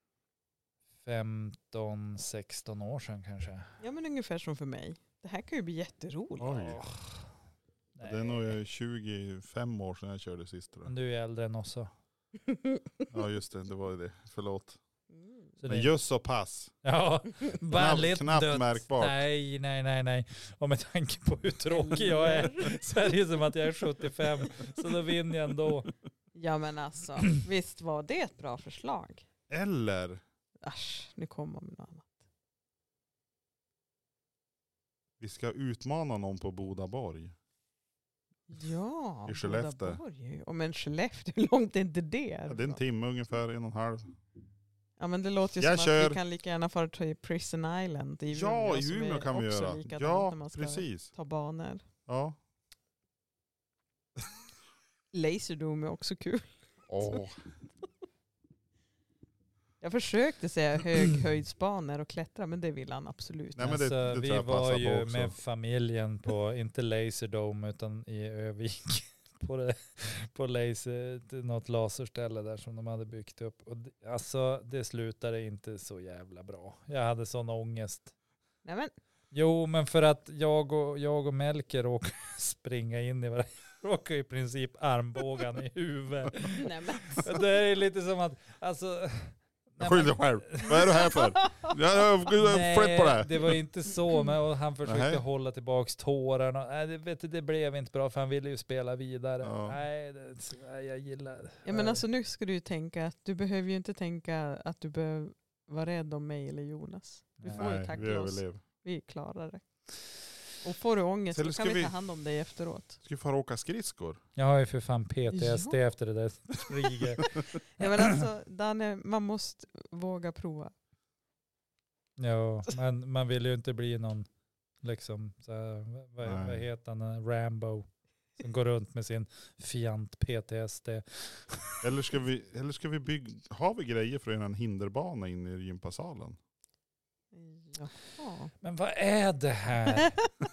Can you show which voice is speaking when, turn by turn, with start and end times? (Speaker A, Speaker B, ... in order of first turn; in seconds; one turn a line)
Speaker A: 1.1-3.7
Speaker B: 3.8-6.7
Speaker C: 6.4-6.8
Speaker A: 6.5-7.3
Speaker A: 8.0-8.6
Speaker C: 8.0-10.9
Speaker A: 10.9-11.9
Speaker B: 12.5-12.8
Speaker C: 13.1-14.8
Speaker B: 15.1-15.5
Speaker A: 15.6-15.9
Speaker C: 15.7-16.7
Speaker A: 16.8-25.9
Speaker C: 17.7-19.2
Speaker B: 21.7-23.1
Speaker B: 26.4-29.3
Speaker C: 29.5-30.2
Speaker B: 30.6-32.1
Speaker C: 35.2-37.3
Speaker B: 38.5-42.8
Speaker C: 39.3-40.0
Speaker C: 42.5-44.1
Speaker B: 45.0-51.8
Speaker C: 45.6-46.2
Speaker C: 48.3-51.1
Speaker C: 52.1-52.4
Speaker B: 55.1-57.2
Speaker C: 56.9-57.4
Speaker B: 59.8-63.7
Speaker C: 63.5-65.3
Speaker A: 63.6-78.1
Speaker B: 78.7-78.9
Speaker A: 79.3-90.9
Speaker B: 86.5-87.4
Speaker C: 89.8-93.5
Speaker B: 91.0-91.7
Speaker A: 92.4-102.0
Speaker C: 94.8-95.2
Speaker C: 99.4-99.8
Speaker B: 101.7-109.6
Speaker A: 107.4-107.9
Speaker C: 107.5-108.6
Speaker B: 110.6-113.0
Speaker C: 111.3-111.9
Speaker C: 113.0-114.2
Speaker A: 114.4-118.1
Speaker B: 115.3-115.8
Speaker B: 117.8-120.7
Speaker A: 122.2-124.3
Speaker A: 124.8-127.8
Speaker C: 126.2-126.7
Speaker A: 128.4-131.9
Speaker C: 131.8-136.4
Speaker B: 137.3-138.5
Speaker A: 138.6-140.2
Speaker B: 139.9-140.3